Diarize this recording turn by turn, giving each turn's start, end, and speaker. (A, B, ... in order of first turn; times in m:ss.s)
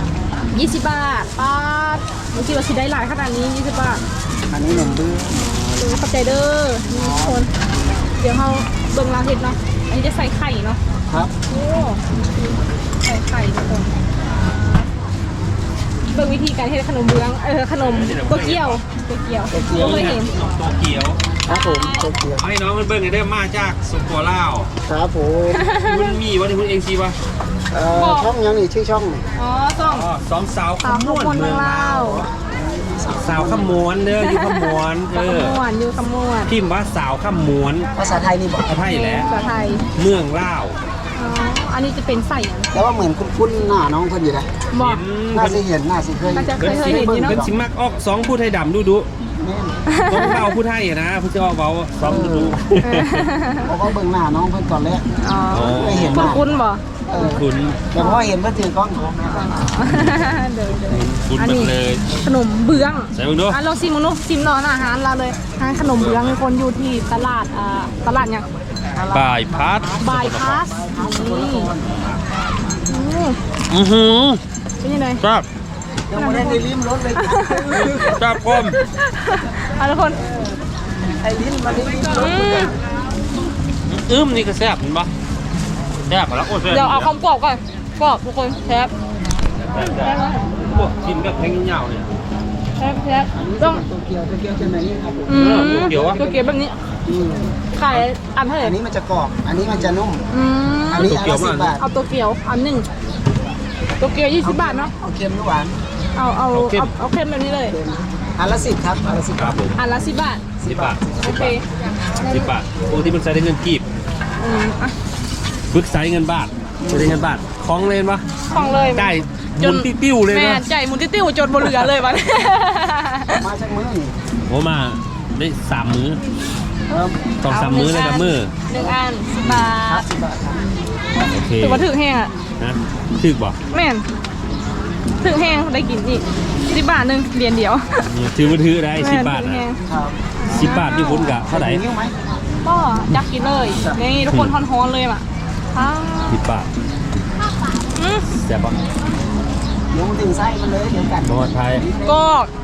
0:00.5-0:04.0 A
0:04.5-0:05.8 B
0:04.7-0:07.5 A
0:06.9-0:07.4 B
0:08.2-0:10.8 A
0:11.5-0:12.2 A
0:13.0-0:13.9 A
0:16.1-0:20.3 A
0:17.8-0:18.8 C
0:19.5-0:20.2 B
0:19.7-0:21.2 C
0:21.4-0:22.5 B
0:21.5-0:22.0 A
0:22.4-0:24.7 C
0:24.8-0:25.6 B
0:25.5-0:26.1 A
0:25.8-0:27.2 C
0:27.7-0:29.2 B
0:27.9-0:28.3 A
0:29.4-0:30.1 A
0:29.8-0:32.1 C
0:30.8-0:32.3 A
0:31.9-0:33.8 B
0:33.2-0:35.6 C
0:34.2-0:36.5 A
0:36.5-0:37.9 C
0:38.0-0:38.7 B
0:38.6-0:39.3 C
0:38.8-0:39.8 A
0:39.9-0:40.8 C
0:41.2-0:42.7 A
0:42.7-0:44.5 B
0:44.7-0:45.0 A
0:44.8-0:45.6 C
0:45.3-0:47.5 B
0:46.3-0:47.4 A
0:46.6-0:49.1 C
0:49.4-0:49.7 B
0:49.9-0:50.5 A
0:50.0-0:53.3 C
0:52.0-0:52.5 B
0:52.8-0:53.7 A
0:53.6-0:55.1 B
0:55.2-0:57.4 A
0:55.5-0:56.4 C
0:55.7-0:56.5 B
0:57.1-0:59.7 B
0:57.2-0:57.8 C
0:58.0-0:58.2 A
0:59.3-1:08.5 A
0:59.9-1:00.2 C
1:00.9-1:02.0 C
1:03.1-1:03.6 C
1:05.7-1:06.4 C
1:08.9-1:12.7 B
1:09.1-1:10.6 C
1:10.0-1:11.7 A
1:12.9-1:13.4 A
1:13.7-1:14.4 C
1:14.8-1:15.2 A
1:15.2-1:15.4 C
1:16.1-1:18.1 B
1:16.1-1:20.2 A
1:17.7-1:18.8 C
1:21.2-1:22.7 B
1:22.1-1:22.7 A
1:23.9-1:25.1 C
1:26.1-1:27.1 C
1:26.7-1:28.9 A
1:29.6-1:32.1 C
1:29.7-1:30.4 A
1:32.8-1:33.8 A
1:33.3-1:36.5 B
1:35.3-1:36.8 A
1:35.3-1:36.2 C
1:37.0-1:37.6 B
1:37.7-1:38.8 A
1:38.6-1:40.2 B
1:40.3-1:41.2 A
1:40.9-1:41.8 B
1:41.0-1:41.8 C
1:41.8-1:42.8 A
1:44.0-1:44.9 A
1:44.4-1:45.8 B
1:46.2-1:47.8 A
1:46.5-1:46.9 C
1:47.7-1:49.8 B
1:49.4-1:49.8 C
1:49.8-1:50.5 A
1:50.6-1:51.5 B
1:50.6-1:51.5 C
1:51.2-1:51.6 A
1:52.2-1:52.5 A
1:52.3-1:53.8 C
1:54.4-1:54.9 A
1:55.7-1:58.3 C
1:56.8-1:57.2 B
1:58.5-2:03.4 A
1:58.5-1:58.8 B
1:58.9-2:00.6 C
2:03.3-2:04.1 B
2:04.5-2:06.2 C
2:06.9-2:07.2 B
2:07.4-2:08.5 C
2:07.5-2:10.1 A
2:08.7-2:10.7 B
2:11.2-2:11.9 C
2:11.6-2:12.3 A
2:12.6-2:13.6 C
2:13.7-2:14.0 A
2:15.2-2:18.1 A
2:18.0-2:19.7 C
2:19.0-2:19.8 A
2:19.8-2:20.2 B
2:20.4-2:21.4 A
2:20.5-2:21.8 C
2:21.4-2:22.2 B
2:22.6-2:26.4 A
2:23.7-2:24.0 B
2:24.3-2:24.6 C
2:26.3-2:26.7 C
2:27.9-2:28.3 A
2:28.4-2:28.8 C
2:29.9-2:32.2 B
2:31.2-2:31.8 C
2:32.0-2:32.5 A